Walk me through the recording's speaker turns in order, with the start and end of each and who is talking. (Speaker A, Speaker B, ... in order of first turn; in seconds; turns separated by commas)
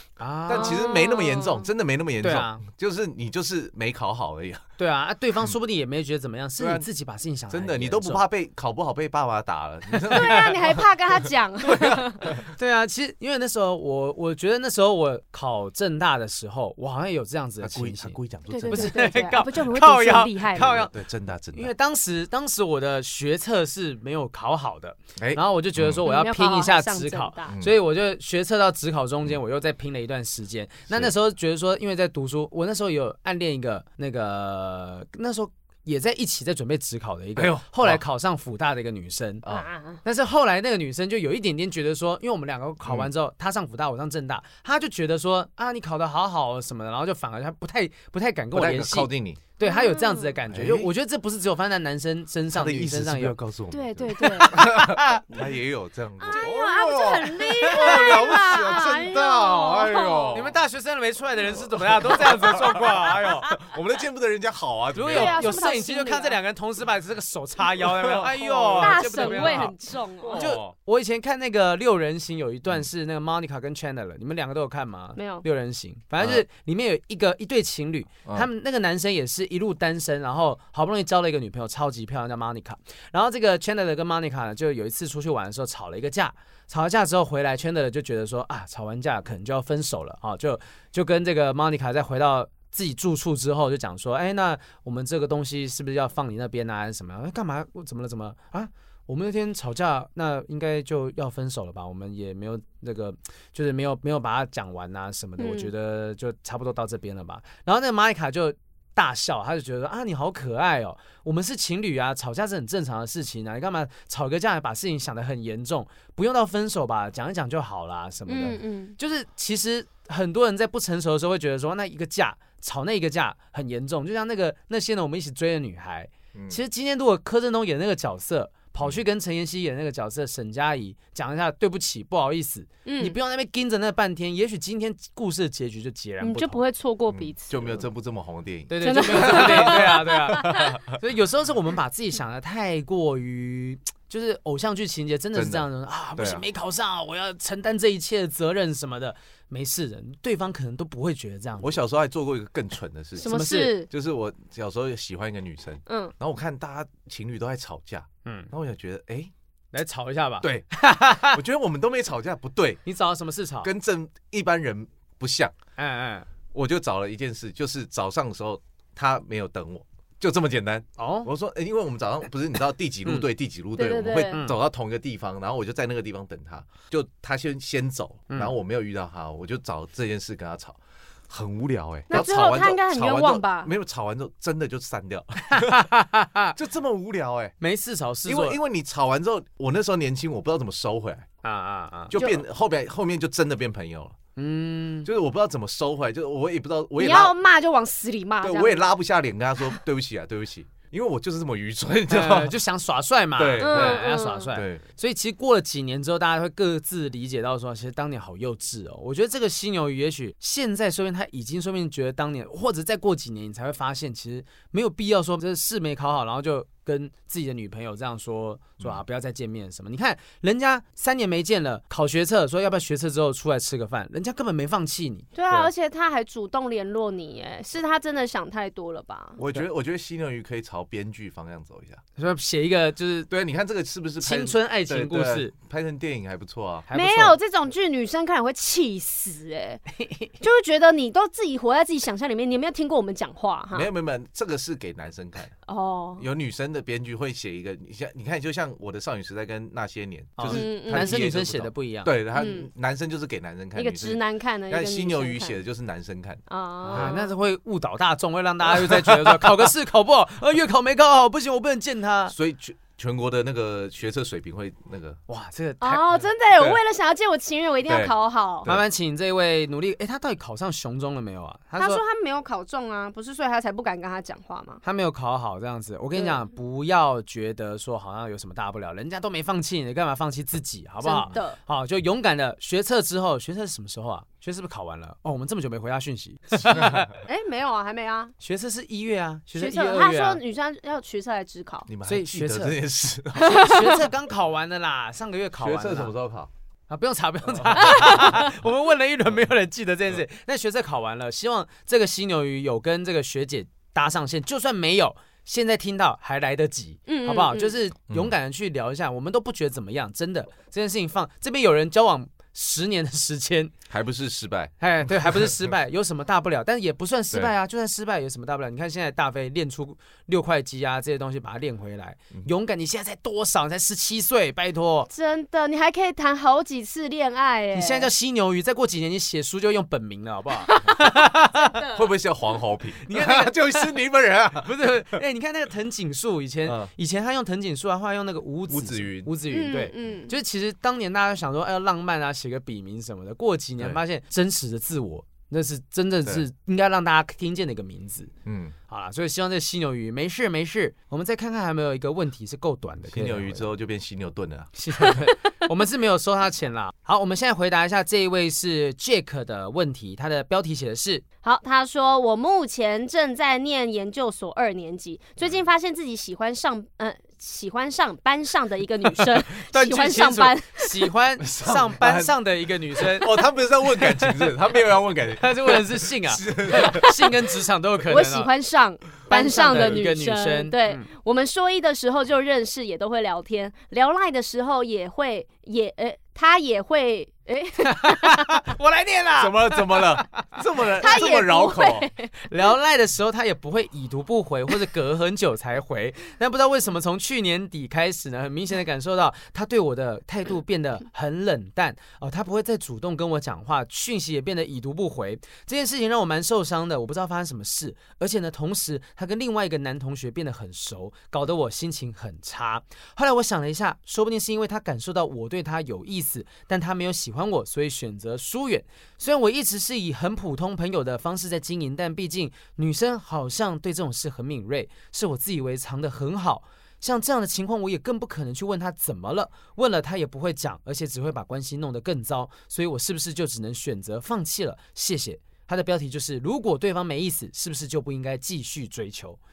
Speaker A: 0.2-0.9, Speaker B: 0.5-4.7, Speaker C: 0.5-1.7, Speaker A: 2.2-2.6, Speaker A: 4.8-8.2, Speaker B: 6.6-6.9, Speaker B: 7.5-12.4, Speaker A: 9.9-10.5, Speaker C: 10.1-12.3, Speaker A: 12.5-20.9, Speaker B: 17.6-19.1, Speaker C: 18.5-20.8, Speaker B: 20.5-21.7, Speaker A: 21.5-39.5, Speaker B: 25.2-26.0, Speaker C: 26.1-27.6, Speaker B: 27.5-27.8, Speaker B: 37.4-38.0, Speaker C: 39.5-40.0, Speaker A: 40.0-53.4, Speaker B: 42.9-43.1, Speaker B: 48.5-49.4, Speaker C: 49.6-50.3, Speaker B: 50.5-50.9, Speaker B: 52.5-60.5, Speaker C: 53.7-54.7, Speaker A: 54.2-55.3, Speaker C: 56.2-60.4, Speaker A: 57.5-58.2, Speaker A: 60.3-63.6, Speaker B: 61.5-65.5, Speaker A: 65.0-69.8, Speaker C: 65.1-66.4, Speaker B: 67.7-70.7, Speaker C: 68.8-70.4, Speaker A: 70.3-136.6, Speaker C: 75.2-75.5, Speaker B: 76.2-76.5, Speaker C: 105.4-105.7, Speaker C: 118.3-119.0, Speaker B: 126.3-126.6, Speaker C: 132.8-133.2, Speaker C: 136.2-137.8, Speaker B: 137.1-140.9, Speaker A: 138.7-151.8, Speaker C: 138.8-140.8, Speaker B: 145.3-146.4, Speaker B: 151.6-159.3, Speaker C: 153.2-153.9, Speaker A: 153.3-153.8, Speaker C: 155.9-156.1, Speaker A: 158.2-158.5, Speaker A: 159.7-161.4, Speaker B: 160.4-160.7, Speaker B: 161.2-162.8, Speaker A: 162.8-163.7, Speaker B: 163.6-165.5, Speaker A: 165.8-166.3, Speaker B: 166.5-185.9, Speaker A: 171.0-171.3, Speaker C: 173.8-174.4, Speaker A: 174.3-174.6, Speaker C: 182.1-183.7, Speaker A: 185.4-186.6, Speaker B: 186.6-187.5, Speaker A: 187.6-188.6, Speaker B: 188.3-191.3, Speaker A: 191.4-192.2, Speaker B: 192.1-194.2, Speaker C: 192.1-192.4, Speaker A: 194.4-195.1, Speaker B: 195.1-197.3, Speaker C: 197.0-198.9, Speaker B: 198.4-202.6, Speaker A: 202.1-225.3, Speaker B: 203.4-204.8, Speaker C: 203.6-204.5, Speaker C: 225.3-229.4, Speaker B: 229.4-232.0, Speaker A: 232.2-233.3, Speaker B: 233.3-236.9, Speaker A: 234.2-235.5, Speaker A: 236.9-237.4, Speaker C: 236.9-239.8, Speaker A: 240.0-240.3, Speaker C: 240.4-243.9, Speaker B: 243.7-245.5, Speaker C: 245.7-246.2, Speaker B: 246.2-257.1, Speaker A: 250.4-252.1, Speaker C: 250.5-251.2, Speaker C: 252.3-252.7, Speaker C: 253.8-255.6, Speaker C: 256.5-257.3, Speaker A: 256.9-262.4, Speaker B: 258.7-259.7, Speaker B: 262.3-265.2, Speaker A: 265.3-266.3, Speaker C: 265.8-268.7, Speaker B: 267.9-268.9, Speaker A: 268.7-272.0, Speaker C: 271.8-274.8, Speaker A: 274.8-287.2, Speaker C: 276.2-276.4, Speaker C: 281.0-281.6, Speaker C: 287.2-288.3, Speaker A: 288.4-290.4, Speaker C: 289.6-291.9, Speaker B: 291.9-293.9, Speaker A: 292.1-292.8, Speaker A: 293.4-296.1, Speaker C: 293.4-293.9, Speaker B: 295.6-296.5, Speaker A: 296.9-313.7, Speaker B: 297.5-298.4, Speaker C: 307.1-307.7, Speaker B: 308.1-308.3, Speaker B: 313.9-315.7, Speaker A: 314.8-325.1, Speaker C: 325.1-328.1, Speaker A: 327.7-331.8, Speaker C: 330.7-330.9, Speaker C: 331.7-332.0, Speaker B: 331.9-334.7, Speaker A: 333.0-333.9, Speaker A: 334.6-348.3, Speaker B: 338.7-339.3, Speaker C: 339.5-340.3, Speaker B: 348.4-348.8, Speaker A: 348.9-353.7, Speaker B: 353.1-354.7, Speaker A: 354.8-361.2, Speaker C: 361.4-371.1, Speaker A: 369.1-373.3, Speaker B: 371.4-372.3, Speaker B: 373.0-377.3, Speaker A: 373.9-374.5, Speaker A: 375.4-378.5, Speaker C: 378.1-388.6, Speaker A: 379.3-381.1, Speaker A: 387.8-390.4, Speaker B: 389.4-392.1, Speaker C: 391.0-392.3, Speaker A: 392.4-439.4